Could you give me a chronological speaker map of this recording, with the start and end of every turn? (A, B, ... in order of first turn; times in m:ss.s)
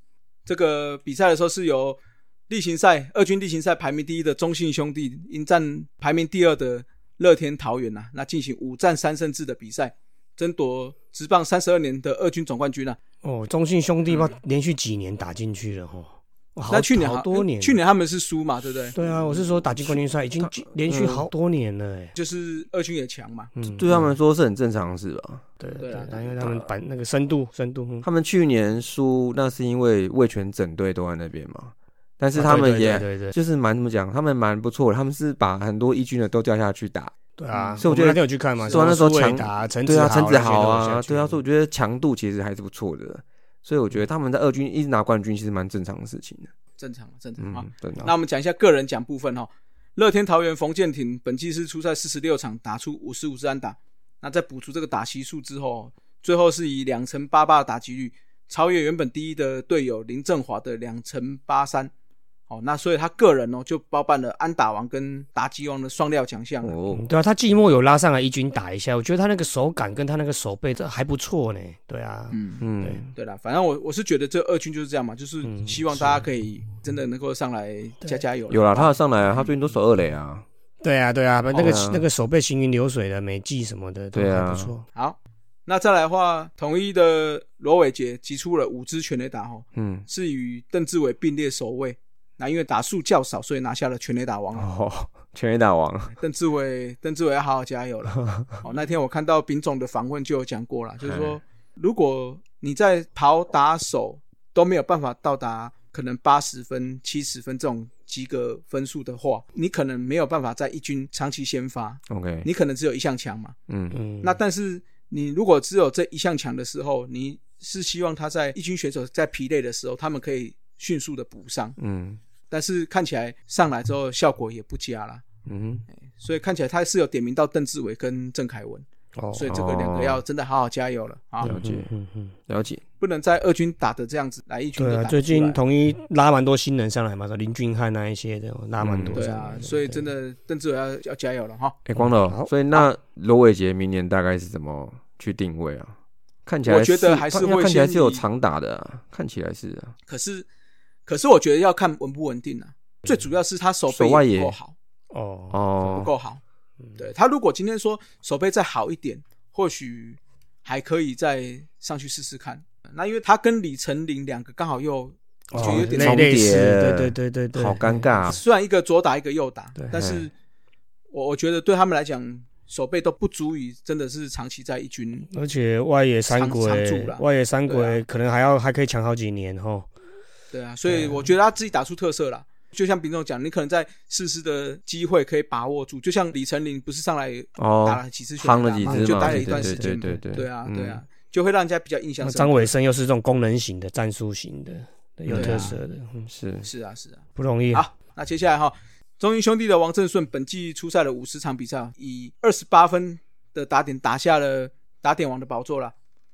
0:00.5-0:13.0 A
0:13.2-0:17.8 B
0:16.7-0:19.0 A
0:18.9-0:22.1 B
0:19.8-0:21.3 C
0:22.2-0:23.5 A
0:23.6-0:24.1 B
0:23.7-0:25.4 C
0:25.6-0:28.1 B
0:25.8-0:26.4 A
0:26.4-0:26.7 C
0:28.0-0:37.1 C
0:32.3-0:33.4 B
0:37.4-0:41.4 B
0:37.5-0:37.8 A
0:37.8-0:46.5 C
0:46.8-1:01.9 A
0:47.4-0:48.1 C
1:02.5-1:06.8 A
1:06.6-1:07.1 C
1:06.9-1:13.1 B
1:12.3-1:12.6 A
1:12.6-1:13.1 C
1:13.2-1:18.9 A
1:15.4-1:16.2 B
1:18.5-1:20.4 C
1:20.8-1:24.8 B
1:21.6-1:22.0 C
1:24.1-1:24.7 C
1:25.0-1:34.7 A
1:29.8-1:30.1 C
1:34.6-1:36.1 C
1:36.2-1:53.6 A
1:41.0-1:41.4 C
1:52.1-1:52.5 C
1:53.7-1:54.0 C
1:53.9-1:54.4 B
1:54.2-2:01.8 A
2:01.8-2:02.2 C
2:02.5-2:05.2 A
2:05.5-2:05.8 C
2:05.9-2:11.5 A
2:09.2-2:09.5 B
2:09.5-2:10.2 C
2:11.4-2:12.3 B
2:11.4-2:11.9 C
2:12.5-2:12.8 C
2:13.0-2:15.6 A
2:14.8-2:20.1 B
2:18.8-2:19.2 C
2:19.1-2:21.8 A
2:21.9-2:26.0 C
2:22.0-2:22.5 B
2:26.5-2:30.0 C
2:26.7-2:28.2 A
2:30.1-2:30.5 A
2:31.1-2:34.8 A
2:33.9-2:34.6 C
2:35.1-2:35.9 B
2:35.5-2:36.1 C
2:35.9-2:36.4 A
2:37.0-2:46.3 A
2:45.5-2:48.4 B
2:45.6-2:48.4 C
2:48.3-2:50.3 A
2:49.9-2:50.3 C
2:51.1-2:55.3 A
2:55.3-2:59.9 B
2:56.3-2:58.0 A
3:00.5-3:12.7 A
3:00.9-3:01.3 B
3:07.6-3:11.0 C
3:08.8-3:10.2 B
3:12.2-3:16.3 B
3:15.3-3:15.7 C
3:15.3-3:15.8 A
3:16.3-3:16.7 C
3:16.6-3:25.9 A
3:17.4-3:17.9 B